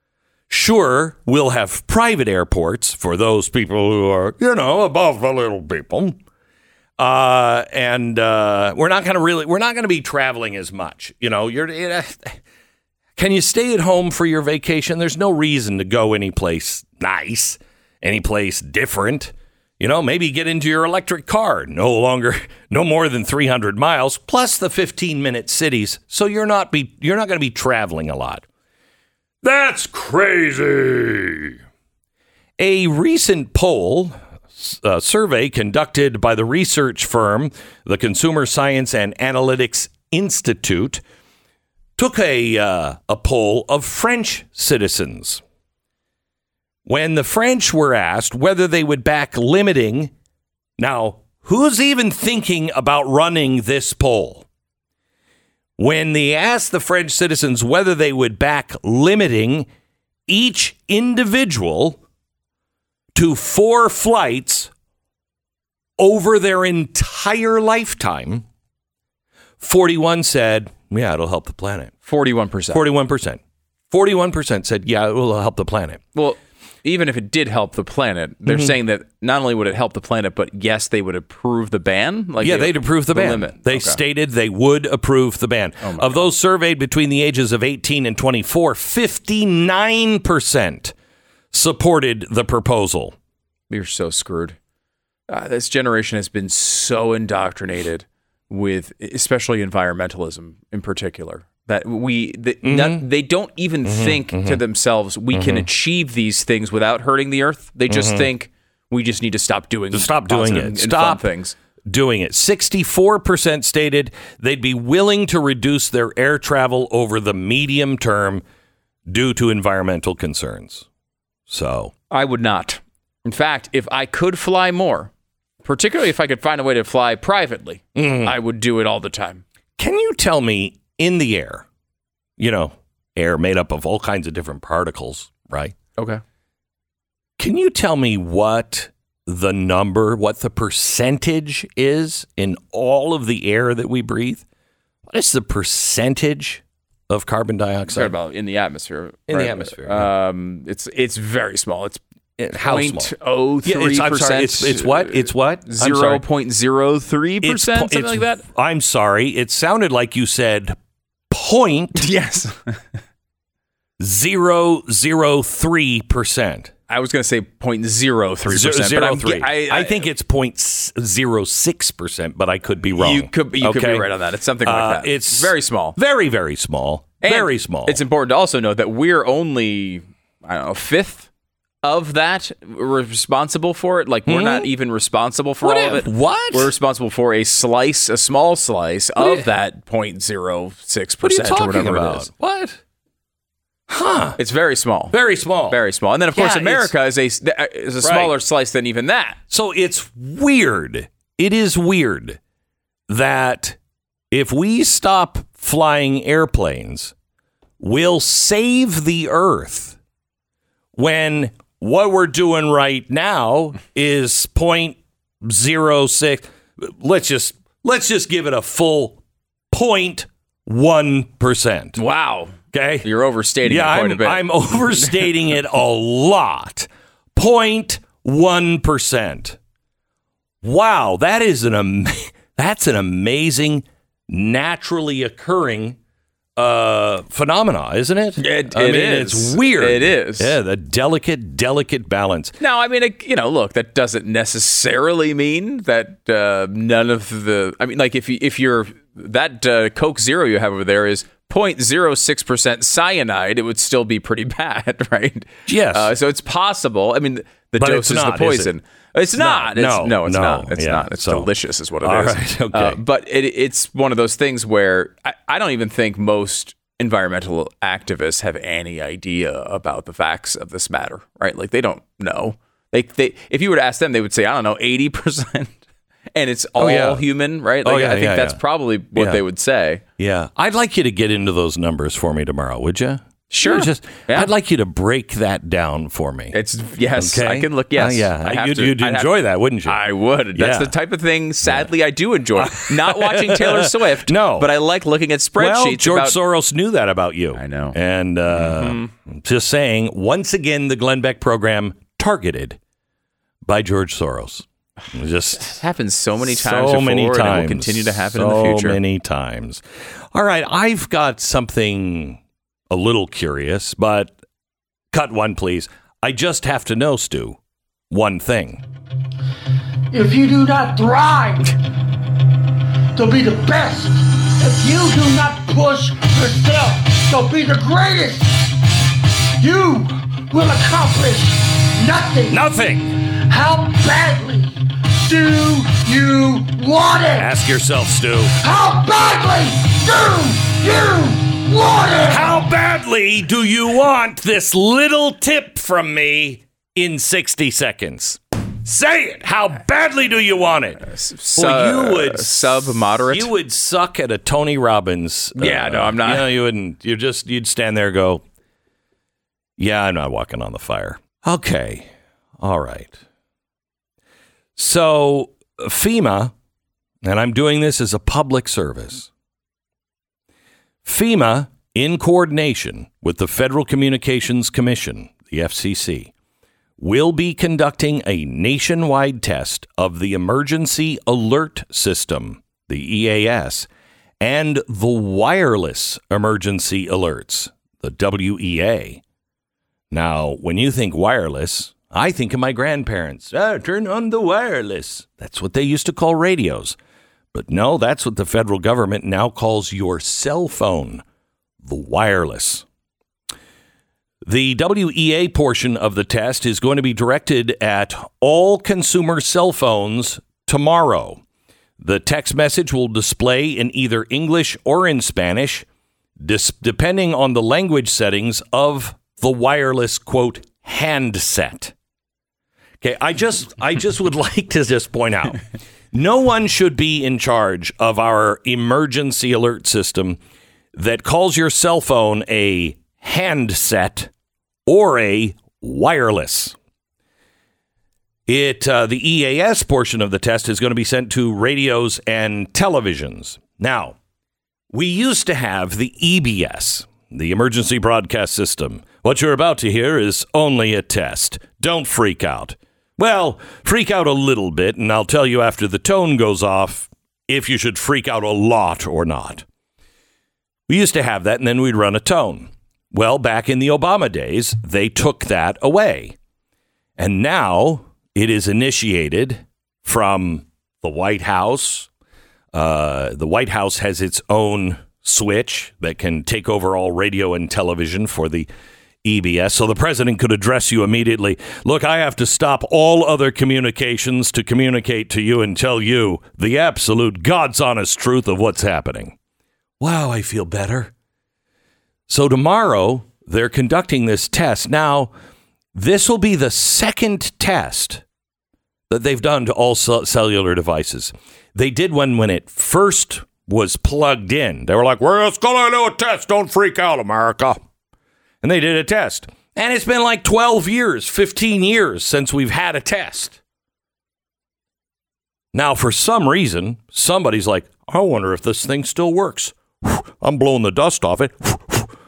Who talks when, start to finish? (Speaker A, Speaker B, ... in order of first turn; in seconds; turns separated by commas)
Speaker A: 0.5-6.2, Speaker A: 7.0-12.4, Speaker A: 13.2-28.4, Speaker A: 29.4-31.5, Speaker A: 32.6-41.0, Speaker A: 42.0-45.4, Speaker A: 46.9-50.1, Speaker A: 50.8-54.5, Speaker A: 55.8-59.7, Speaker A: 60.3-62.0, Speaker A: 63.1-64.7, Speaker A: 66.0-68.5, Speaker A: 69.6-71.9, Speaker B: 72.1-72.8, Speaker A: 72.7-73.4, Speaker A: 73.9-76.0, Speaker B: 76.2-84.0, Speaker A: 78.5-78.7, Speaker A: 82.4-90.9, Speaker B: 85.8-86.3, Speaker A: 91.5-93.2, Speaker B: 93.7-94.6, Speaker B: 95.3-111.5, Speaker A: 102.6-103.1, Speaker A: 103.8-104.6, Speaker A: 105.3-105.7, Speaker A: 107.9-108.3, Speaker A: 109.9-111.3, Speaker A: 111.9-118.4, Speaker A: 119.1-120.9, Speaker A: 121.5-121.9, Speaker B: 122.1-125.1, Speaker B: 125.6-129.4, Speaker A: 128.0-128.3, Speaker A: 129.8-131.7, Speaker A: 132.4-135.8, Speaker B: 136.0-136.2, Speaker A: 137.4-144.4, Speaker A: 145.1-148.1, Speaker B: 147.9-152.0, Speaker A: 149.3-150.1, Speaker A: 152.4-156.2, Speaker B: 152.6-158.4, Speaker A: 157.4-160.8, Speaker A: 161.3-162.1, Speaker B: 161.9-162.8, Speaker A: 164.0-166.7, Speaker B: 166.9-170.1, Speaker A: 168.5-174.1, Speaker B: 172.9-176.0, Speaker A: 174.6-178.0, Speaker B: 177.2-181.3, Speaker B: 181.8-192.3, Speaker A: 184.3-184.7, Speaker A: 185.6-186.7, Speaker A: 189.2-189.5, Speaker A: 191.2-192.8, Speaker A: 193.9-194.4, Speaker B: 194.4-195.2, Speaker A: 195.1-195.8, Speaker B: 195.7-199.4, Speaker A: 196.3-196.9, Speaker A: 198.0-198.3, Speaker A: 199.5-202.4, Speaker A: 203.1-203.8, Speaker A: 204.3-207.1, Speaker A: 207.8-210.0, Speaker A: 211.0-219.2, Speaker A: 219.7-222.0, Speaker B: 222.0-225.3, Speaker A: 222.7-223.1, Speaker A: 223.6-229.6, Speaker A: 230.6-236.0, Speaker A: 236.6-242.6, Speaker B: 238.4-240.6, Speaker B: 242.6-280.0, Speaker A: 255.7-256.1, Speaker A: 257.8-258.7, Speaker A: 259.4-261.5, Speaker A: 262.0-263.0, Speaker A: 276.8-277.2, Speaker A: 277.8-278.6, Speaker A: 279.1-279.4, Speaker A: 280.2-286.6, Speaker B: 283.5-284.5, Speaker B: 286.5-289.3, Speaker A: 287.1-290.0, Speaker B: 289.9-296.4, Speaker A: 290.5-290.9, Speaker A: 292.6-294.7, Speaker A: 295.6-302.8, Speaker B: 297.5-298.0, Speaker B: 298.5-299.1, Speaker A: 303.6-305.8, Speaker B: 305.6-309.0, Speaker A: 306.4-309.8, Speaker A: 310.3-312.4, Speaker A: 312.9-314.4, Speaker A: 315.1-317.6, Speaker A: 318.1-318.8, Speaker C: 320.1-321.8, Speaker C: 323.1-328.8, Speaker C: 329.6-332.7, Speaker A: 332.5-333.2, Speaker C: 333.3-337.5, Speaker A: 337.4-338.6, Speaker C: 338.6-342.6, Speaker A: 342.3-358.4, Speaker B: 351.0-353.5, Speaker B: 355.6-356.6, Speaker A: 359.8-363.2, Speaker A: 364.8-366.5, Speaker A: 367.2-369.3, Speaker A: 371.1-376.3, Speaker A: 377.0-383.9, Speaker A: 384.4-389.2, Speaker A: 390.1-397.0, Speaker A: 397.5-401.2, Speaker A: 401.8-402.9, Speaker A: 404.4-411.4, Speaker A: 412.0-415.9, Speaker A: 416.4-421.9, Speaker A: 423.0-430.4, Speaker A: 430.9-434.3, Speaker A: 434.9-436.8, Speaker A: 438.5-444.2, Speaker A: 444.9-459.6, Speaker A: 460.9-466.4, Speaker A: 467.2-472.1, Speaker A: 472.7-478.7, Speaker A: 479.2-489.4, Speaker A: 490.0-491.1, Speaker A: 492.3-495.3, Speaker A: 495.9-498.2, Speaker A: 499.1-507.8, Speaker A: 508.6-513.6, Speaker A: 515.7-522.1